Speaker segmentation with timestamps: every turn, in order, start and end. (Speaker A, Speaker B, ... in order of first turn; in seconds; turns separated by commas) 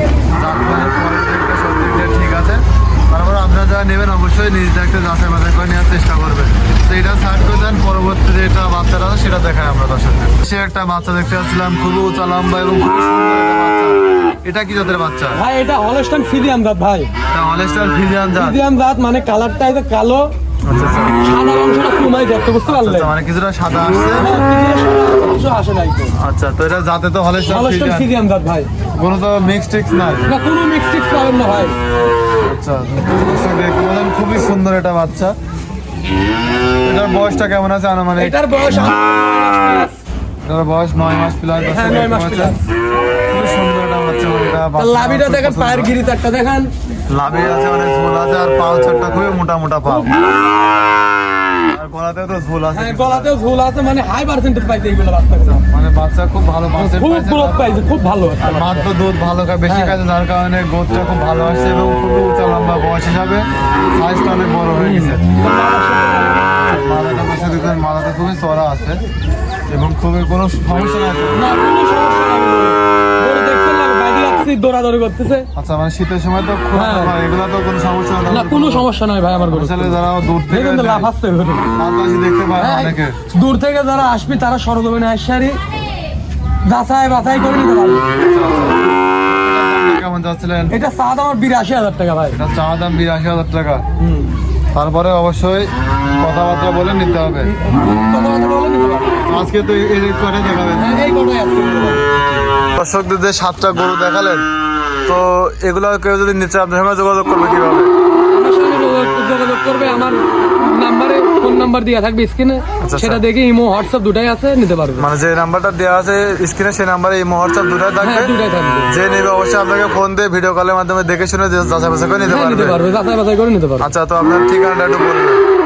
Speaker A: 0.3-15.4, Speaker B: 15.3-17.1, Speaker A: 17.3-18.6, Speaker B: 18.4-20.3, Speaker A: 20.6-21.2, Speaker B: 21.2-23.1, Speaker A: 22.6-24.3, Speaker B: 24.1-26.1, Speaker A: 26.1-28.1, Speaker B: 27.4-28.7, Speaker A: 28.9-30.3, Speaker B: 30.2-31.8, Speaker A: 32.4-35.3, Speaker A: 36.8-38.4, Speaker B: 38.2-40.0, Speaker A: 40.5-42.5, Speaker B: 41.6-42.6, Speaker A: 43.3-45.9, Speaker B: 44.8-46.7, Speaker A: 47.1-50.1, Speaker B: 49.8-50.8, Speaker A: 51.7-53.3, Speaker B: 52.7-55.6, Speaker A: 55.5-57.7, Speaker B: 56.7-58.9, Speaker A: 58.4-65.2, Speaker B: 59.6-60.0, Speaker B: 64.7-66.7, Speaker A: 66.7-69.0, Speaker A: 69.7-71.4, Speaker B: 71.3-75.5, Speaker A: 75.5-78.8, Speaker B: 76.7-77.1, Speaker B: 78.2-81.7, Speaker A: 79.5-81.1, Speaker A: 81.7-83.2, Speaker B: 82.5-85.6, Speaker B: 86.6-88.1, Speaker A: 88.2-90.8, Speaker B: 90.7-92.4, Speaker A: 92.3-93.8, Speaker B: 94.0-94.3, Speaker A: 94.7-97.5, Speaker B: 97.4-99.2, Speaker A: 99.2-101.0, Speaker B: 100.8-102.3, Speaker A: 102.7-104.4, Speaker A: 105.0-107.9, Speaker B: 108.3-115.1, Speaker A: 112.8-113.2, Speaker A: 115.0-118.3, Speaker B: 118.0-118.9, Speaker A: 118.9-122.8, Speaker B: 122.2-123.9, Speaker A: 123.8-125.4